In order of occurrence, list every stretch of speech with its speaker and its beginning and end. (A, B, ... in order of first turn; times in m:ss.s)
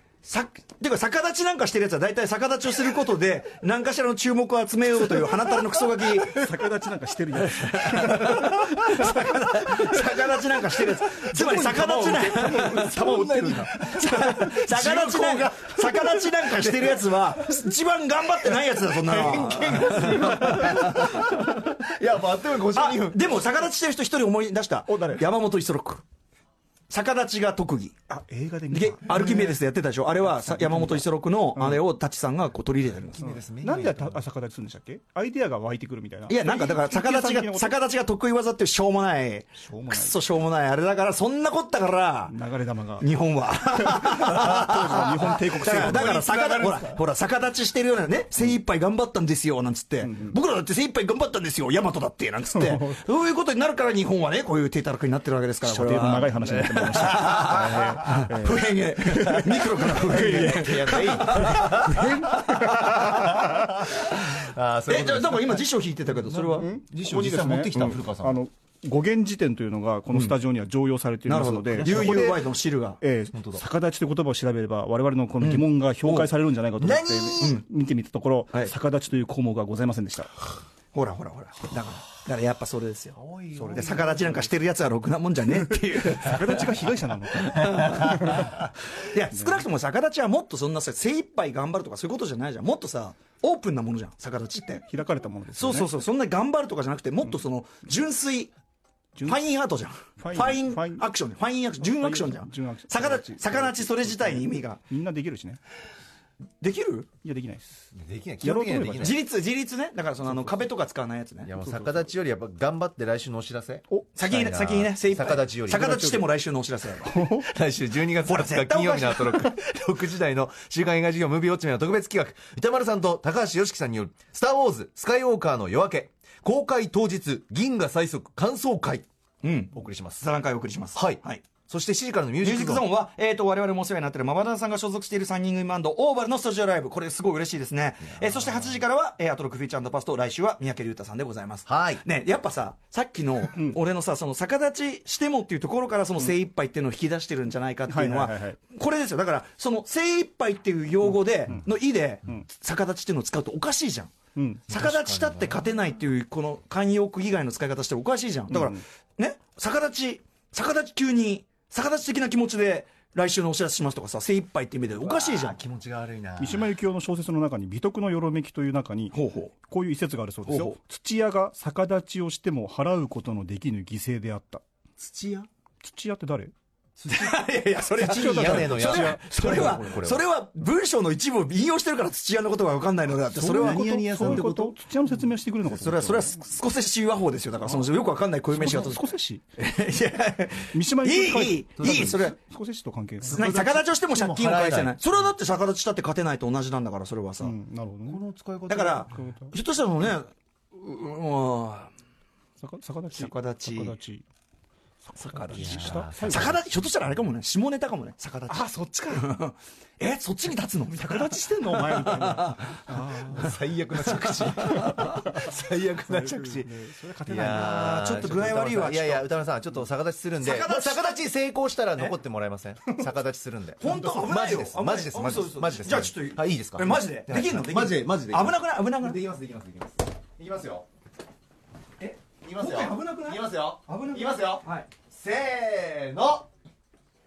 0:00.2-0:06.5 A
0:06.4-0:10.0 B
0:07.4-0:13.1 A
0:11.3-0:17.0 C
0:11.7-0:13.8 B
0:13.8-0:21.7 A
0:18.9-0:23.3 C
0:22.7-0:26.0 A
0:24.9-0:25.2 B
0:26.9-0:27.9 A
0:28.1-0:29.6 B
0:28.7-0:33.3 A
0:30.2-0:31.8 B
0:33.1-0:34.2 C
0:33.2-0:37.7 B
0:36.3-0:42.4 A
0:39.6-0:40.2 B
0:42.3-0:43.1 B
0:43.0-1:06.7 A
0:43.7-0:46.2 B
0:45.7-0:47.0 C
0:50.0-0:50.4 B
0:52.5-0:53.0 B
0:55.6-1:03.8 B
1:00.0-1:02.2 C
1:03.0-1:05.6 C
1:06.4-1:12.4 B
1:06.9-1:08.4 C
1:10.1-1:10.4 A
1:11.3-1:13.0 A
1:11.8-1:12.1 C
1:13.0-1:20.4 B
1:13.3-1:13.6 C
1:15.4-1:16.3 A
1:16.8-1:17.5 C
1:17.4-1:17.6 A
1:20.9-1:26.8 A
1:23.1-1:24.5 C
1:23.6-1:23.9 B
1:26.1-1:28.7 B
1:27.5-1:34.8 A
1:29.3-1:29.6 B
1:34.9-1:35.9 B
1:35.5-1:38.5 A
1:39.2-1:39.4 B
1:39.2-1:44.8 A
1:40.2-1:41.0 B
1:41.8-1:45.6 B
1:46.6-1:47.1 A
1:47.2-1:47.7 B
1:47.9-1:49.2 C
1:48.4-1:49.2 B
1:49.0-1:51.5 A
1:51.4-1:55.8 C
1:51.6-1:52.0 B
1:53.9-1:54.1 B
1:54.1-1:57.2 A
1:55.7-1:56.3 B
1:57.0-1:57.5 B
1:57.4-2:09.0 C
1:58.2-1:59.5 A
2:09.4-2:11.5 A
2:09.7-2:10.2 C
2:10.9-2:12.9 C
2:12.4-2:34.1 A
2:21.7-2:22.0 C
2:23.5-2:23.8 B
2:27.9-2:28.6 B
2:34.3-2:34.8 B
2:34.7-2:45.6 A
2:34.7-2:35.6 C
2:38.5-2:38.8 B
2:45.0-2:46.7 C
2:46.4-2:54.6 B
2:49.1-2:49.5 A
2:50.5-2:50.8 A
2:55.0-2:55.5 C
2:55.8-2:56.5 B
2:57.0-2:57.4 C
2:57.1-3:04.4 A
2:58.0-3:00.2 C
2:58.0-2:59.8 B
3:03.3-3:04.8 C
3:03.3-3:06.4 B
3:05.6-3:12.4 A
3:08.5-3:09.5 B
3:10.7-3:13.5 B
3:11.8-3:12.3 C
3:13.2-3:15.0 C
3:13.3-3:17.6 A
3:17.4-3:18.2 B
3:18.1-3:19.1 C
3:18.7-3:21.9 A
3:19.1-3:19.5 B
3:22.6-3:24.2 B
3:23.1-3:24.0 A
3:25.1-3:26.6 B
3:25.2-3:35.2 A
3:25.5-3:26.6 C
3:28.5-3:29.3 B
3:31.0-3:33.6 B
3:33.2-3:50.9 C
3:35.2-3:35.5 B
3:36.0-3:38.5 B
3:37.5-3:39.3 A
3:40.4-3:41.2 A
3:43.8-3:49.2 A
3:52.0-3:54.9 A
3:52.4-3:56.5 C